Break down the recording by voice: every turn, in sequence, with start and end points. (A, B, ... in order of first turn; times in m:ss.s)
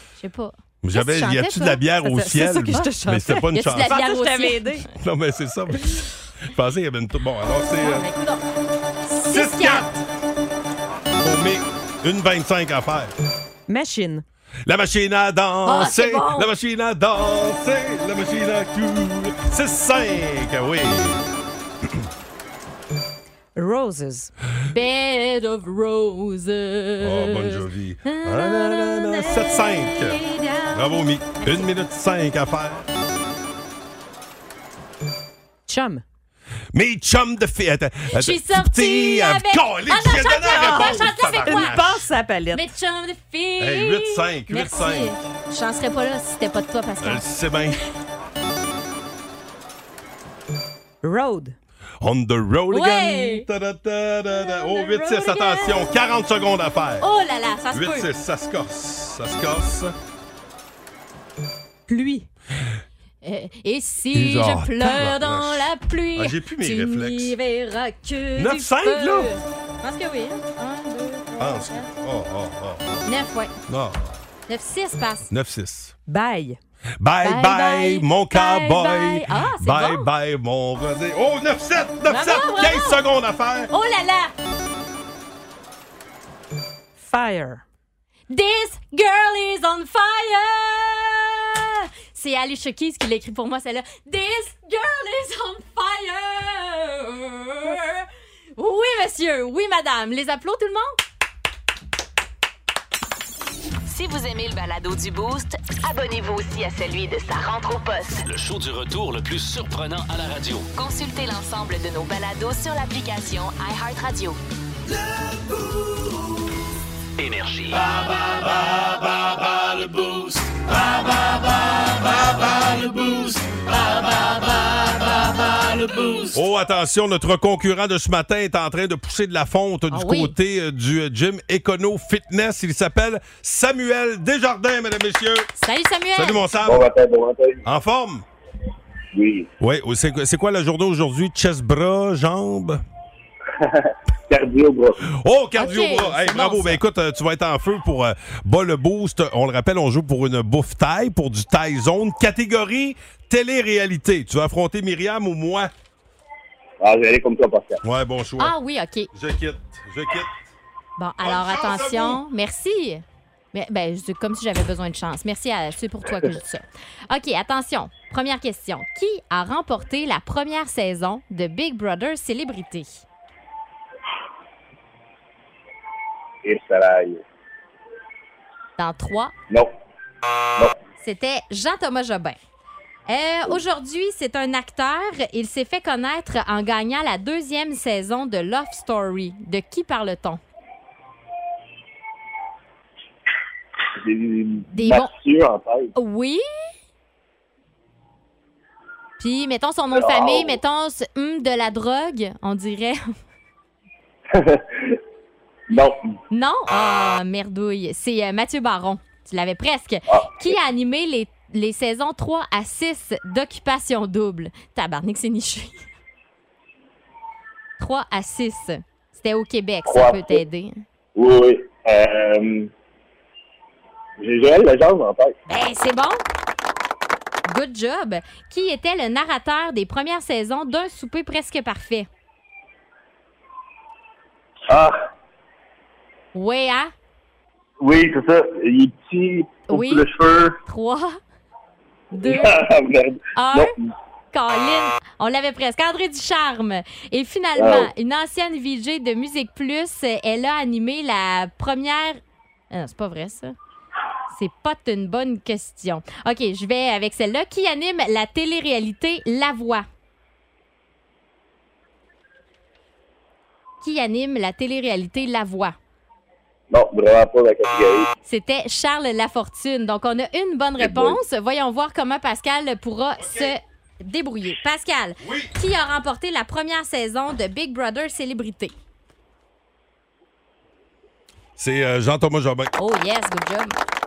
0:00.2-0:01.8 A
0:00.8-0:04.0 B
0:01.0-0:04.8 C
0:03.5-0:04.8 A
0:04.9-0:08.1 B
0:07.8-0:08.4 A
0:09.1-0:10.0 A
0:09.3-0:09.9 B
0:11.2-0:13.1 B
0:13.7-0:14.2 C
0:14.7-0:21.2 B
0:15.6-0:16.5 A
0:23.6-0:24.3 C
0:24.7-0:31.7 A
0:27.0-0:30.2 B
0:30.7-0:32.9 B
0:35.7-0:36.0 C
0:36.7-0:42.1 B
0:38.1-0:41.8 A
0:40.5-0:42.7 C
0:42.5-0:47.2 A
0:43.6-0:45.2 B
0:47.0-0:47.8 B
0:51.0-0:51.6 C
0:52.0-0:57.1 B
0:52.7-0:53.5 A
0:54.3-0:55.9 A
0:57.0-0:58.1 A
0:57.7-1:00.0 B
1:01.9-1:02.3 C
1:03.2-1:11.9 A
1:04.1-1:07.4 B
1:08.4-1:09.3 B
1:11.4-1:13.1 B
1:13.0-1:13.5 A
1:13.7-1:14.2 B
1:14.5-1:15.3 A
1:15.3-1:15.9 B
1:16.1-1:16.6 C
1:17.0-1:23.7 B
1:17.2-1:20.1 A
1:22.1-1:23.0 A
1:23.7-1:24.3 A
1:27.0-1:27.6 C
1:28.3-1:38.1 A
1:38.6-1:40.9 A
1:43.9-1:48.2 D
1:48.3-1:50.7 E
1:50.8-1:54.4 D
1:57.2-1:57.8 E
2:06.3-2:15.5 B
2:09.9-2:10.4 A
2:15.6-2:16.5 A
2:16.2-2:16.9 B
2:16.6-2:17.6 F
2:17.6-2:18.2 B
2:19.1-2:19.5 F
2:19.6-2:22.8 B
2:23.6-2:25.0 F
2:25.1-2:35.7 B
2:25.6-2:26.8 A
2:36.8-2:37.8 F
2:37.8-2:38.6 B
2:38.4-2:39.1 A
2:39.1-2:40.4 B
2:41.0-2:53.0 A
2:41.2-2:42.2 B
2:56.4-2:57.2 F
2:58.8-2:59.3 A
3:01.0-3:02.4 A
3:03.1-3:10.4 A
3:14.0-3:15.9 F
3:14.7-3:15.1 A
3:16.0-3:16.4 A
3:19.2-3:23.0 A
3:19.9-3:20.6 F
3:24.3-3:25.0 F
3:25.7-3:26.0 F
3:26.3-3:35.8 A
3:30.1-3:30.5 F
3:37.8-3:40.8 A
3:39.9-3:40.4 F
3:41.2-3:42.7 F
3:44.2-3:45.4 F
3:45.5-3:46.2 A
3:47.5-3:52.1 A
3:54.7-3:55.0 F
3:56.3-3:56.9 A
3:57.8-4:00.6 F
3:59.7-4:00.1 A
4:00.6-4:01.2 A
4:02.2-4:02.6 A
4:02.2-4:03.7 F
4:03.4-4:03.7 A
4:04.3-4:12.2 A
4:07.6-4:07.9 F
4:12.7-4:13.6 A
4:14.3-4:19.9 A
4:23.8-4:25.8 A
4:26.7-4:28.1 F
4:28.2-4:38.7 A
4:30.8-4:31.2 F
4:33.2-4:33.5 B
4:35.2-4:35.5 B
4:41.6-4:42.7 B
4:42.8-4:43.8 A